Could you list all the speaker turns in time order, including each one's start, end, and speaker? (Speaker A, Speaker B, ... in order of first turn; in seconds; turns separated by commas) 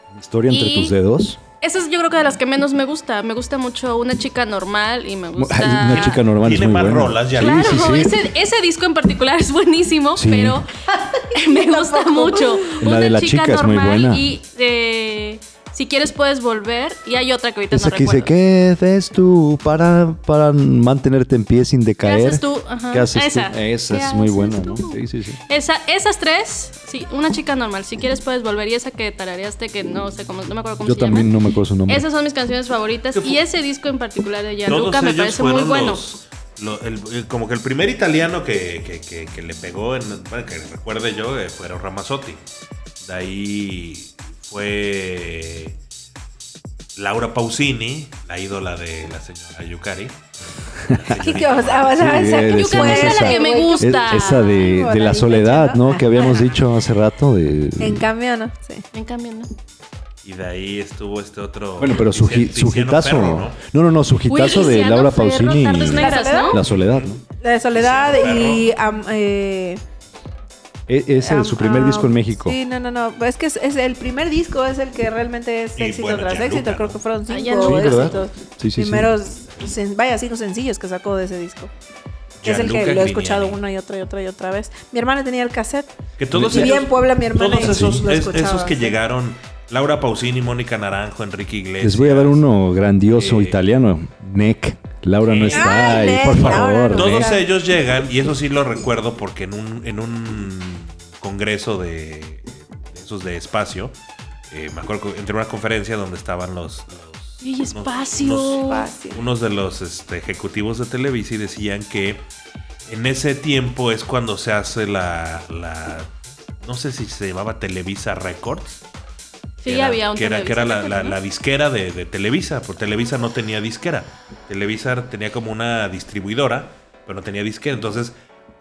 Speaker A: 0.1-1.4, Speaker B: 0.5-0.9, Speaker B: 1.6-6.2, Speaker A: 5.3-8.2, Speaker C: 5.9-8.1, Speaker B: 7.4-18.3, Speaker A: 10.1-10.6, Speaker D: 11.3-12.8, Speaker A: 12.8-14.3, Speaker A: 17.7-25.4, Speaker B: 22.0-31.3, Speaker A: 30.8-32.0, Speaker B: 31.9-36.0, Speaker C: 33.1-33.4, Speaker C: 34.6-42.4, Speaker C: 43.0-45.8, Speaker C: 47.0-50.2, Speaker C: 50.8-52.0, Speaker A: 50.8-58.0, Speaker D: 51.1-56.5, Speaker B: 52.5-54.5, Speaker D: 57.8-58.8, Speaker B: 58.9-59.5, Speaker C: 60.2-63.6, Speaker A: 61.8-67.2, Speaker B: 64.2-66.6, Speaker D: 65.8-66.6, Speaker C: 66.7-67.1, Speaker D: 67.4-69.8, Speaker C: 67.7-68.7, Speaker A: 70.9-72.5, Speaker D: 71.2-81.7, Speaker C: 75.8-77.0, Speaker B: 77.3-78.2, Speaker A: 77.6-79.1, Speaker C: 82.4-83.6, Speaker D: 82.4-89.0, Speaker C: 86.2-92.4, Speaker A: 86.3-86.8, Speaker A: 87.6-88.0, Speaker A: 91.8-97.3, Speaker C: 93.1-93.6, Speaker C: 95.2-103.9, Speaker D: 95.5-97.5, Speaker C: 104.5-112.2, Speaker B: 107.4-108.9, Speaker D: 108.6-109.2, Speaker C: 112.9-116.1, Speaker C: 116.6-118.8, Speaker B: 119.6-121.2, Speaker C: 119.6-128.1